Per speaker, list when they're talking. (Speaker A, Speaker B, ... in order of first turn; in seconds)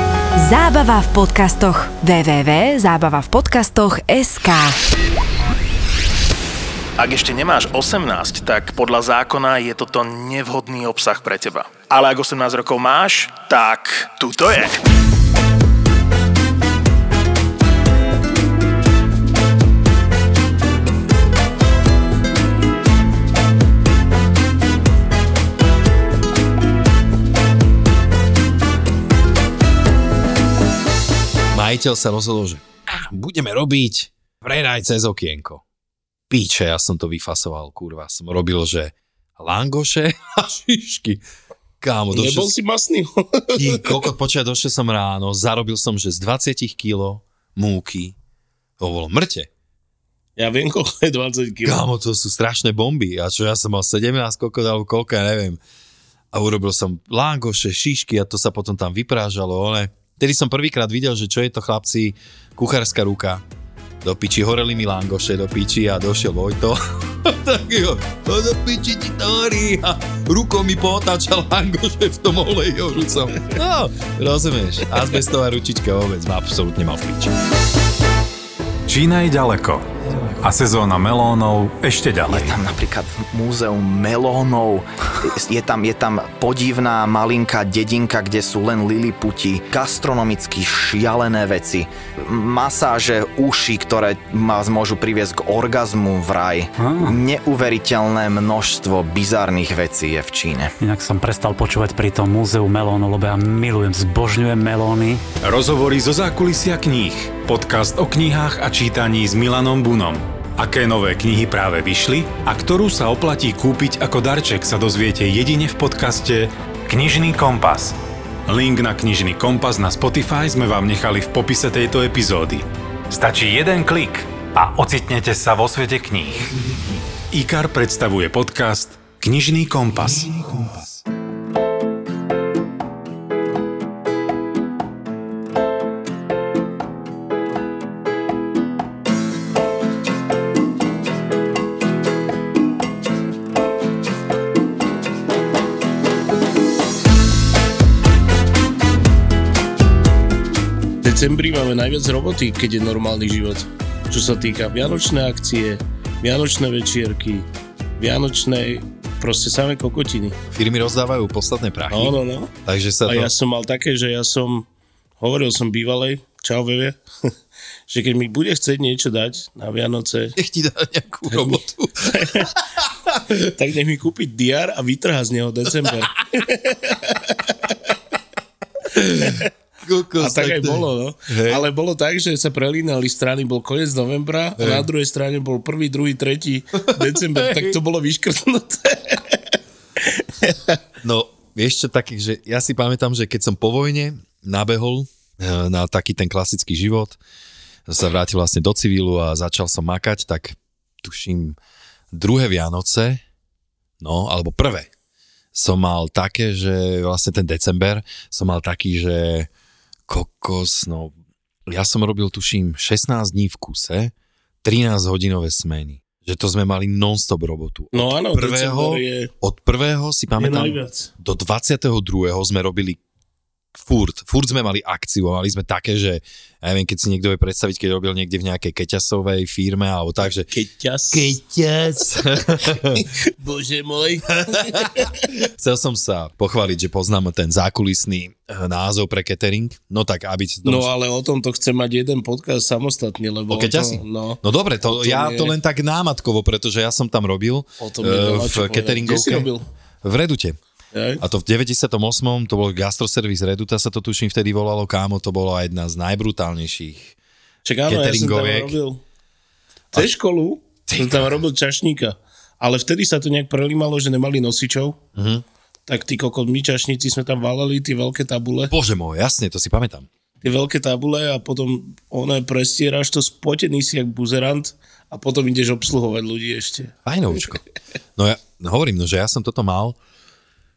Speaker A: 0.4-4.8
Speaker B: 7.0-14.8
Speaker C: 31.5-35.6, 36.3-41.2, 41.8-42.5, 43.5-48.1, 48.8-49.5, 51.6-55.6, 56.3-63.4, 64.0-77.3, 160.5-163.3, 170.4-173.2, 178.9-181.7, 184.6-184.9, 186.8-187.8, 191.0-197.2, 197.9-201.6, 202.1-203.2, 204.0-204.9, 205.5-209.5, 210.1-211.1, 211.7-214.1, 214.6-223.0, 223.8-230.5, 231.1-233.0, 234.4-240.9, 243.5-249.5, 250.0-250.6, 251.2-257.1, 257.9-258.8, 260.9-261.3, 265.1-265.4, 268.7-270.1, 277.1-277.6, 278.2-280.0
Speaker D: 42.1-44.0, 50.4-51.9, 151.0-157.5, 158.0-160.4, 161.9-162.5, 163.1-164.7, 165.2-167.0, 167.9-170.4, 171.3-172.5, 173.3-177.8, 179.0-179.5, 180.2-189.5, 190.1-190.8, 217.9-219.3, 220.4-221.1, 230.5-231.4, 232.3-235.3, 240.7-245.6, 247.8-249.7, 250.9-251.2, 257.6-259.0, 259.9-265.0, 265.9-268.7, 270.4-276.9
Speaker E: 78.9-79.9, 80.4-82.6, 105.4-118.0, 118.5-130.8
Speaker F: 82.3-100.7
Speaker G: 96.8-97.2, 100.8-105.3